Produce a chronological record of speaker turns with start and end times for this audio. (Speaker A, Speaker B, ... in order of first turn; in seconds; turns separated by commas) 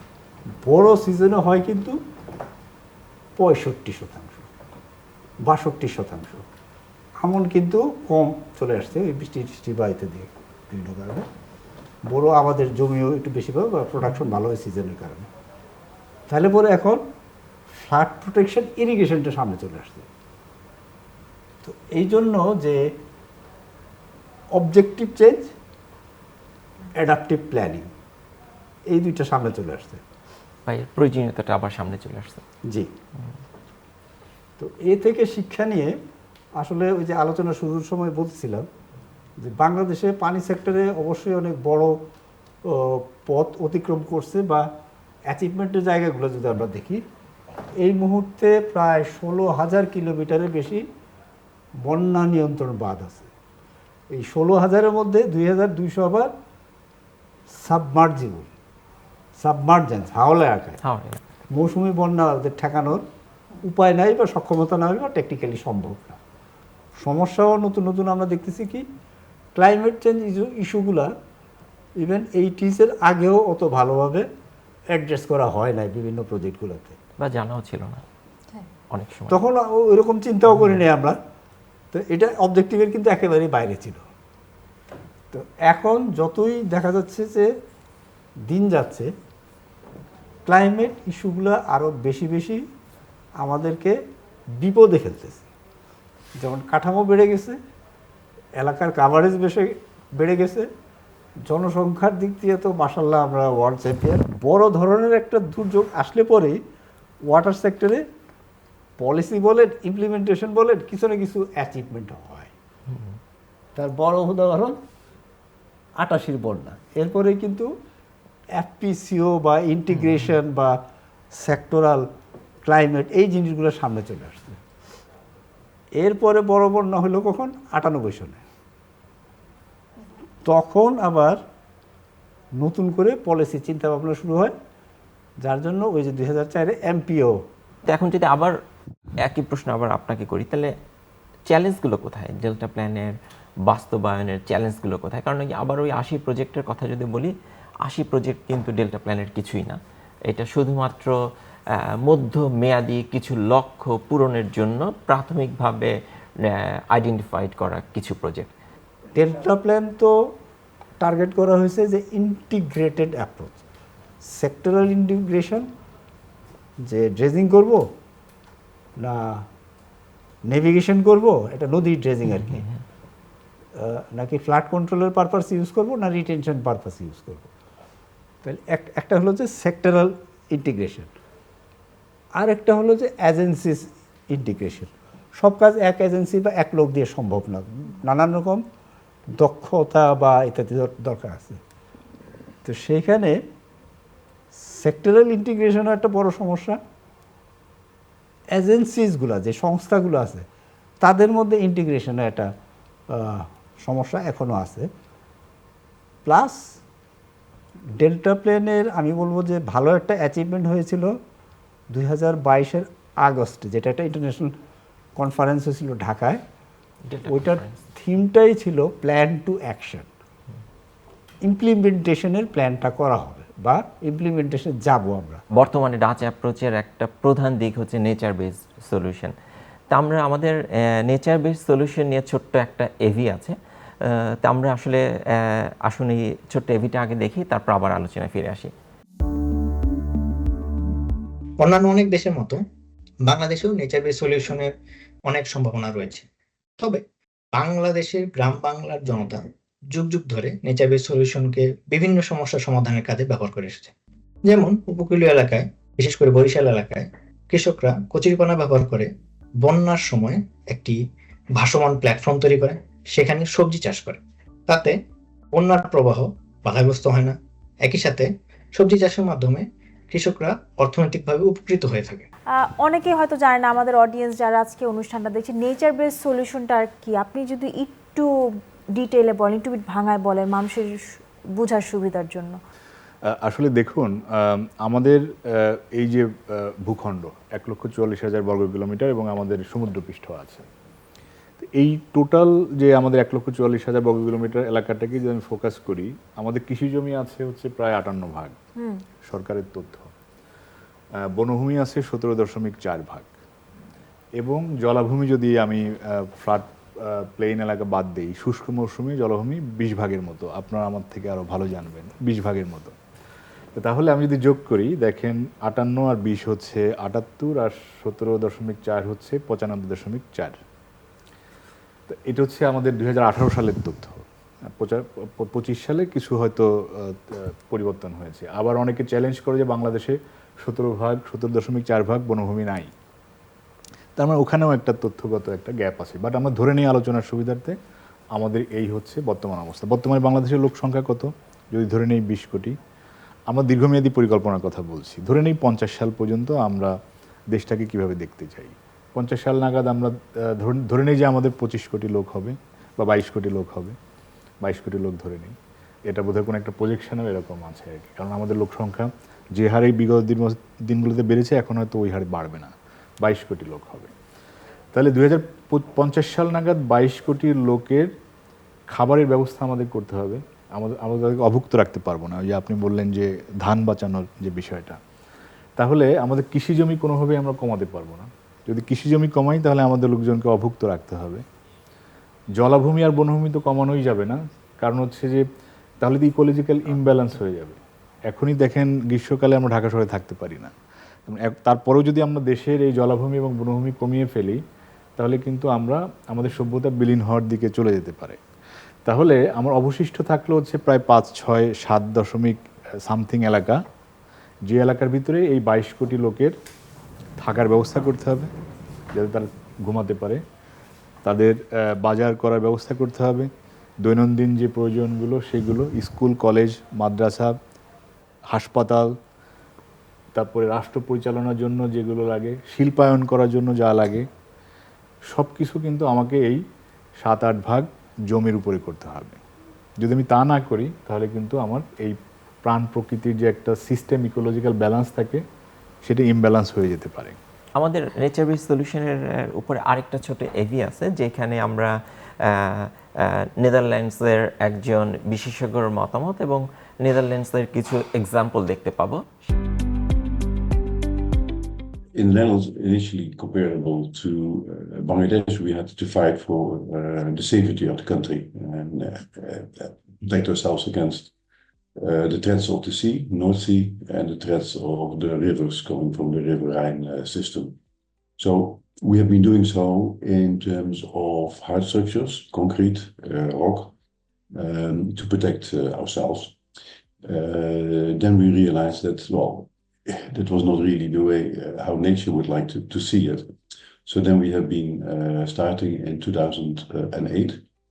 Speaker A: 0.6-2.0, Speaker A: 3.4-4.5, Speaker A: 5.4-6.4, Speaker A: 7.2-11.3, Speaker A: 12.1-15.3, Speaker A: 16.3-17.0, Speaker A: 17.7-20.1, Speaker A: 21.6-22.8, Speaker A: 24.5-25.5, Speaker A: 26.9-27.9, Speaker A: 28.9-30.0, Speaker B: 30.6-32.4, Speaker A: 32.7-32.9, Speaker A: 34.6-36.0, Speaker A: 36.5-38.7, Speaker A: 39.4-42.0, Speaker A: 42.6-44.7, Speaker A: 45.3-47.0, Speaker A: 47.8-50.9, Speaker A: 51.8-53.3, Speaker A: 54.1-56.3, Speaker A: 57.5-58.5, Speaker A: 59.4-60.8, Speaker B: 60.8-61.2, Speaker A: 61.5-63.0, Speaker A: 63.6-66.2, Speaker A: 67.0-68.8, Speaker A: 69.5-71.1, Speaker A: 72.0-74.3, Speaker A: 74.9-77.0, Speaker B: 77.2-78.0, Speaker B: 78.9-79.4, Speaker A: 79.3-81.2, Speaker A: 81.9-84.0, Speaker A: 85.3-87.5, Speaker A: 88.5-89.1, Speaker A: 90.5-92.6, Speaker A: 93.4-94.0, Speaker A: 94.6-95.5, Speaker A: 96.4-97.6, Speaker A: 98.6-100.7, Speaker A: 101.5-106.6, Speaker A: 107.3-108.0, Speaker A: 109.0-112.5, Speaker A: 113.7-114.8, Speaker A: 116.0-117.7, Speaker A: 118.5-120.8, Speaker A: 121.3-122.0, Speaker A: 122.6-124.6, Speaker A: 126.0-128.4, Speaker A: 130.4-131.4, Speaker A: 132.5-134.5, Speaker A: 135.4-137.4, Speaker B: 137.9-138.6, Speaker B: 139.2-140.7, Speaker B: 141.5-143.1, Speaker B: 143.6-147.3, Speaker B: 147.8-151.2, Speaker B: 151.8-158.5, Speaker A: 159.2-160.1, Speaker A: 161.0-163.6, Speaker A: 164.2-165.7, Speaker A: 166.8-167.9, Speaker A: 169.0-169.4, Speaker A: 170.5-172.6, Speaker A: 173.7-177.5, Speaker A: 178.4-181.1, Speaker A: 182.3-188.6, Speaker A: 189.4-191.6, Speaker A: 192.6-193.4, Speaker A: 194.5-196.8, Speaker A: 198.5-200.4, Speaker A: 201.0-202.5, Speaker A: 203.1-204.9, Speaker A: 206.2-206.8, Speaker A: 207.9-211.2, Speaker A: 211.9-214.6, Speaker A: 215.2-216.4, Speaker B: 217.1-217.8, Speaker A: 217.3-220.1, Speaker A: 221.4-225.4, Speaker B: 225.5-229.3, Speaker B: 229.9-238.7, Speaker C: 241.6-242.6, Speaker C: 243.2-244.7, Speaker C: 245.3-246.2, Speaker C: 247.5-253.9, Speaker C: 254.4-259.1, Speaker C: 259.6-261.0, Speaker C: 261.6-264.9, Speaker C: 265.5-272.2, Speaker D: 272.6-282.6, Speaker E: 283.3-290.7, Speaker E: 291.6-298.5, Speaker D: 298.8-299.0, Speaker E: 299.2-300.1, Speaker E: 301.3-303.3, Speaker E: 304.4-312.9, Speaker E: 313.7-320.6, Speaker E: 322.1-332.9, Speaker E: 334.2-337.8, Speaker E: 338.3-342.8, Speaker E: 343.5-346.9, Speaker E: 347.5-353.9, Speaker E: 354.6-355.5, Speaker E: 356.1-364.1, Speaker E: 364.9-368.1, Speaker E: 368.9-375.0, Speaker E: 375.8-381.4, Speaker E: 382.6-385.4, Speaker E: 386.0-390.7, Speaker E: 391.2-394.6, Speaker E: 395.2-398.4, Speaker E: 399.1-403.8, Speaker E: 404.7-406.5, Speaker E: 407.4-408.5, Speaker E: 409.1-410.4, Speaker E: 411.2-413.5, Speaker E: 414.0-417.6, Speaker E: 418.5-419.1, Speaker E: 420.3-424.3, Speaker E: 425.3-426.6, Speaker E: 427.2-429.4, Speaker E: 430.0-435.4, Speaker E: 436.0-437.4, Speaker B: 437.8-449.2, Speaker F: 452.1-461.3, Speaker F: 462.0-467.8, Speaker F: 468.4-473.9, Speaker F: 474.5-476.6, Speaker F: 477.2-483.5, Speaker F: 484.1-487.6